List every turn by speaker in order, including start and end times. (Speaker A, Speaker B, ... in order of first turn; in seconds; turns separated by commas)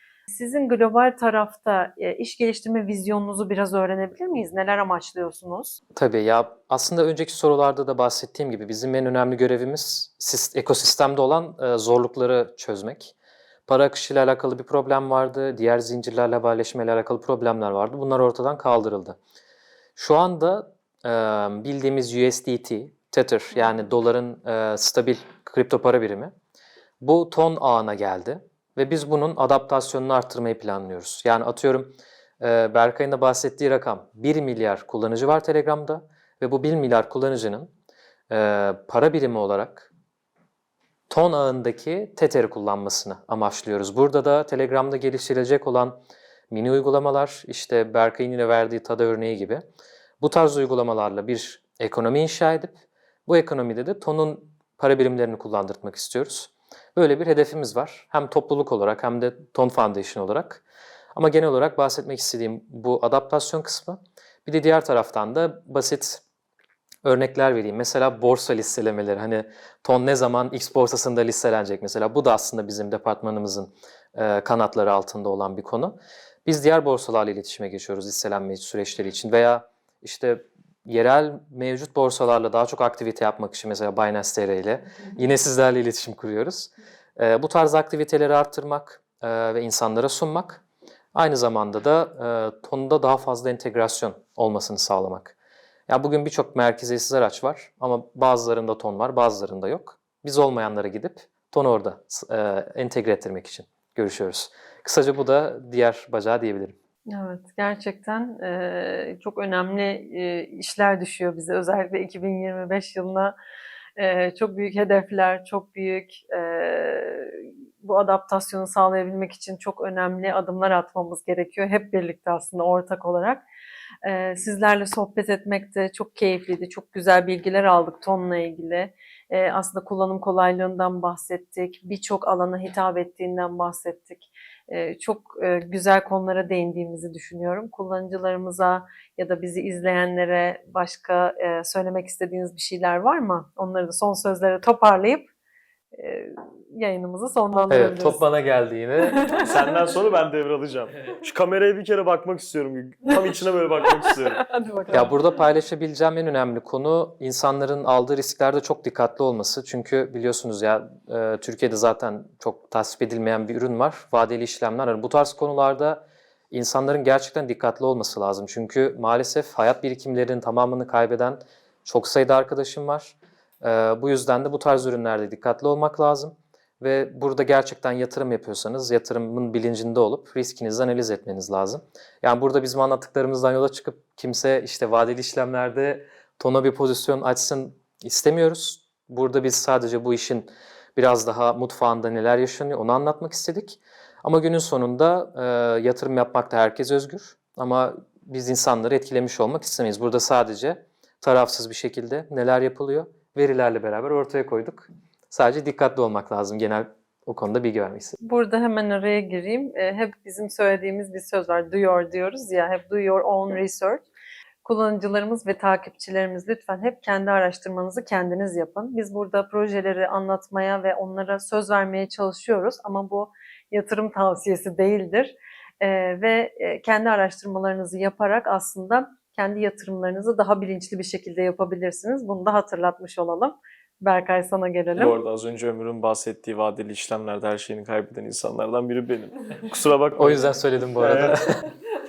Speaker A: 0.3-5.8, Speaker B: 6.0-13.1, Speaker B: 13.7-19.2, Speaker B: 19.9-26.3, Speaker B: 27.0-37.7, Speaker B: 38.3-39.9, Speaker B: 41.1-46.0, Speaker B: 46.5-49.6, Speaker B: 50.2-60.6, Speaker B: 61.1-66.2, Speaker B: 67.0-90.6, Speaker B: 91.1-95.3, Speaker B: 95.9-106.7, Speaker A: 107.1-113.3, Speaker A: 114.0-123.4, Speaker A: 124.0-145.3, Speaker A: 145.9-148.2, Speaker B: 147.7-149.2, Speaker A: 149.0-149.6, Speaker C: 149.4-154.4, Speaker A: 153.8-155.2, Speaker B: 154.9-208.2, Speaker A: 208.2-214.0, Speaker A: 214.6-235.2, Speaker C: 234.9-241.4, Speaker B: 240.2-241.6